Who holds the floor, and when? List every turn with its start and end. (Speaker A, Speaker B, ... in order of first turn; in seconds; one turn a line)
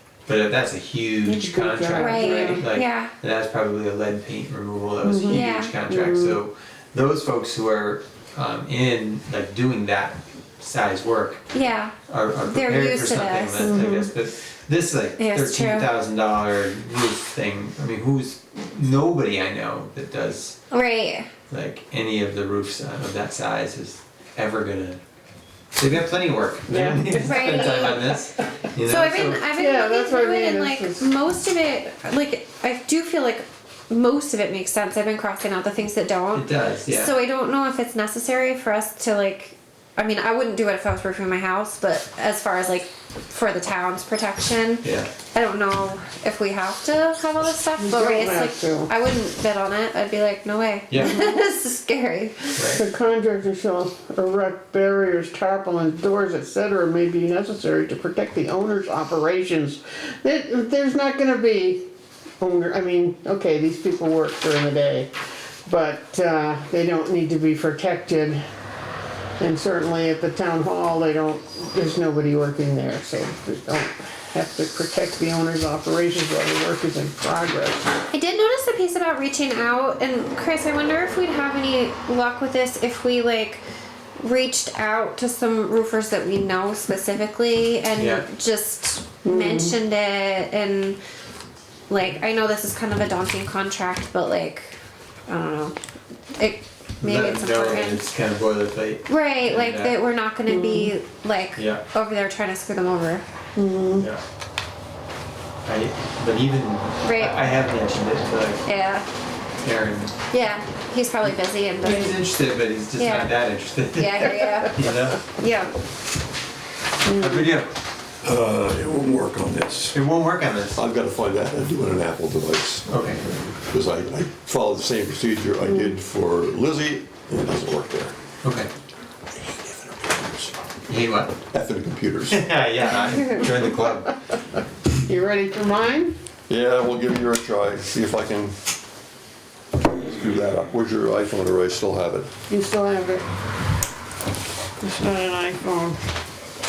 Speaker A: 0.3-11.5
Speaker B: 1.2-2.7
Speaker C: 1.9-3.1
Speaker B: 5.0-6.4
Speaker C: 5.2-5.7
Speaker C: 11.5-13.8
Speaker A: 12.1-20.6
Speaker B: 13.6-14.1
Speaker C: 15.2-15.9
Speaker C: 20.7-21.3
Speaker A: 21.5-25.0
Speaker A: 25.7-29.5
Speaker B: 26.7-27.9
Speaker C: 27.1-28.2
Speaker C: 28.8-52.7
Speaker B: 29.5-31.1
Speaker A: 36.3-37.1
Speaker A: 44.8-45.1
Speaker B: 47.8-48.9
Speaker A: 50.9-51.2
Speaker A: 52.5-52.8
Speaker B: 52.7-61.9
Speaker B: 62.4-65.1
Speaker B: 65.7-68.4
Speaker B: 69.4-77.9
Speaker C: 78.1-83.6
Speaker C: 84.2-91.0
Speaker A: 88.0-88.2
Speaker B: 89.2-89.7
Speaker C: 91.9-95.8
Speaker C: 96.3-98.0
Speaker A: 97.0-100.0
Speaker C: 99.1-103.2
Speaker B: 100.5-100.9
Speaker A: 101.5-101.8
Speaker B: 103.5-104.1
Speaker A: 105.6-108.7
Speaker C: 107.0-107.4
Speaker C: 108.6-109.0
Speaker A: 109.6-110.2
Speaker C: 110.3-112.2
Speaker A: 111.8-115.2
Speaker C: 113.0-115.7
Speaker B: 117.0-117.6
Speaker A: 117.1-117.7
Speaker D: 118.2-120.0
Speaker A: 119.9-120.8
Speaker D: 120.7-128.1
Speaker A: 122.9-123.2
Speaker B: 125.6-126.0
Speaker A: 128.4-128.7
Speaker D: 129.4-130.5
Speaker A: 130.9-131.3
Speaker D: 131.5-132.5
Speaker A: 132.3-134.1
Speaker B: 135.1-136.2
Speaker D: 136.5-138.6
Speaker D: 139.8-142.3
Speaker B: 142.5-143.2
Speaker B: 144.8-146.0